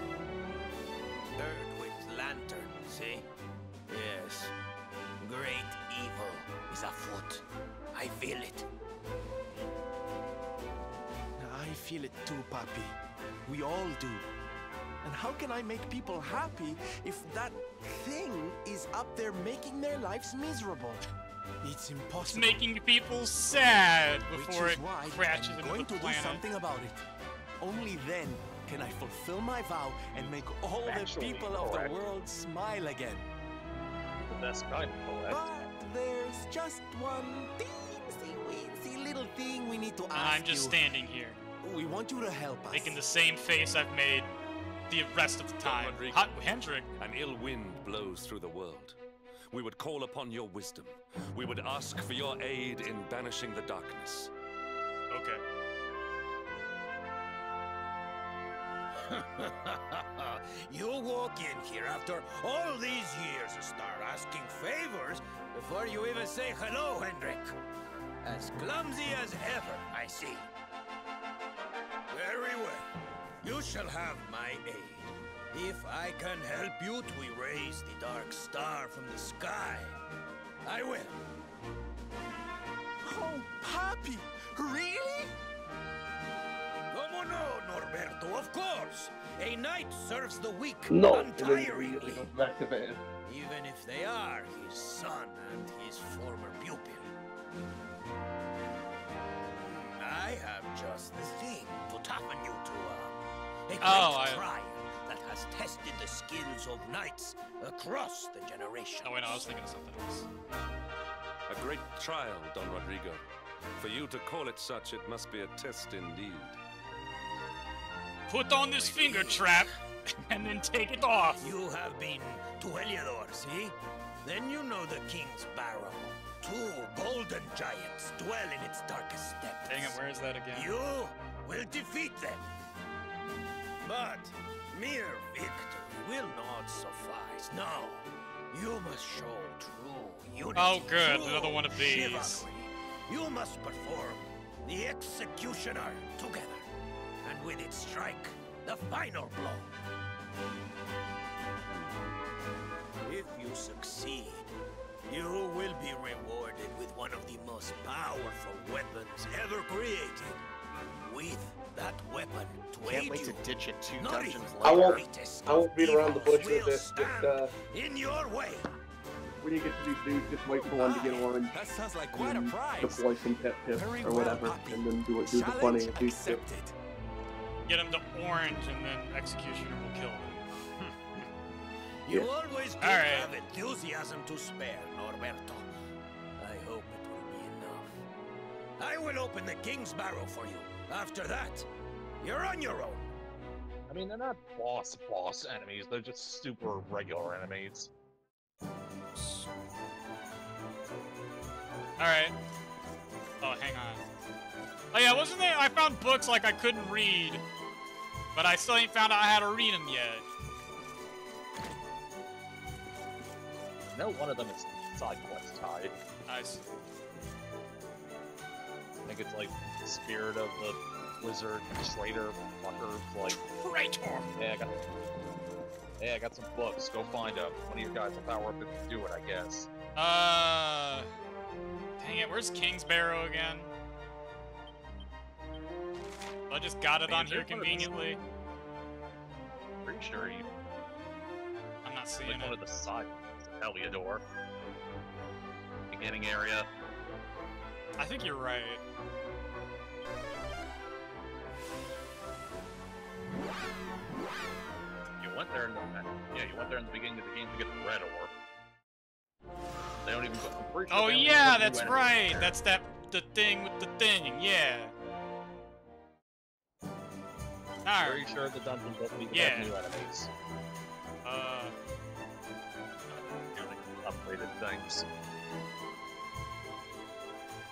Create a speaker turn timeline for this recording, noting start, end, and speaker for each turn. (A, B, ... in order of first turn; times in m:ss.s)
0:01.4-0:03.3 A
0:03.9-0:04.5 A
0:05.2-0:07.4 A
0:07.9-0:08.7 A
0:11.4-0:12.9 B
0:13.4-0:14.3 B
0:15.0-0:21.0 B
0:21.6-0:22.6 B
0:22.2-0:26.4 C
0:24.3-0:27.0 B
0:27.6-0:33.3 B
0:30.1-0:32.0 D
0:34.3-0:35.4 D
0:35.3-0:40.8 B
0:40.1-0:41.4 C
0:41.6-0:43.0 B
0:42.7-0:44.3 C
0:44.9-0:46.9 C
0:45.6-0:46.3 E
0:47.0-0:49.0 E
0:49.5-0:54.3 E
0:55.1-0:55.4 C
0:59.1-1:07.6 A
1:08.2-1:10.5 A
1:12.1-1:12.9 A
1:13.4-1:20.0 A
1:20.6-1:21.2 A
1:23.1-1:25.2 B
1:26.9-1:32.3 A
1:30.9-1:33.0 F
1:33.2-1:37.1 A
1:39.6-1:49.4 A
1:43.8-1:44.4 C
1:49.0-1:50.3 C
1:51.5-1:53.2 E
1:53.8-1:56.6 E
1:58.3-2:01.4 C
1:58.7-1:59.6 A
2:01.4-2:10.0 A
2:09.7-2:10.7 C
2:10.5-2:12.5 A
2:13.8-2:26.7 A
2:20.5-2:22.4 C
2:27.2-2:29.7 A
2:33.0-2:34.5 A
2:35.1-2:40.4 A
2:41.0-2:43.4 A
2:42.8-2:45.0 G
2:44.0-2:48.7 A
2:44.6-2:47.5 F
2:49.4-2:51.6 F
2:50.7-2:53.0 B
2:52.1-2:56.4 F
2:53.7-2:54.6 B
2:54.0-2:54.8 A
2:55.2-2:56.7 B
2:57.7-3:00.4 C
3:00.5-3:01.3 A
3:02.0-3:05.7 A
3:02.8-3:03.3 C
3:06.4-3:08.0 A
3:08.8-3:11.7 A
3:12.2-3:13.1 A
3:13.9-3:17.9 D
3:22.0-3:22.3 C
3:23.4-3:24.0 C
3:24.9-3:27.4 C
3:28.3-3:30.2 C
3:33.9-3:36.0 D
3:36.3-3:36.8 C
3:39.0-3:43.4 D
3:43.3-3:44.3 A
3:44.4-3:44.7 D
3:46.0-3:49.7 D
3:50.0-3:51.1 C
3:52.0-3:53.7 C
3:56.5-3:58.2 C
3:57.1-3:57.9 D
3:59.8-4:00.4 D
4:01.8-4:02.6 C
4:02.2-4:04.2 D
4:05.9-4:06.7 D
4:08.0-4:08.8 C
4:15.2-4:18.3 D
4:20.0-4:22.6 D
4:20.9-4:24.9 C
4:27.8-4:28.2 C
4:28.0-4:30.3 D
4:29.3-4:29.7 C
4:31.2-4:31.7 C
4:33.1-4:35.0 D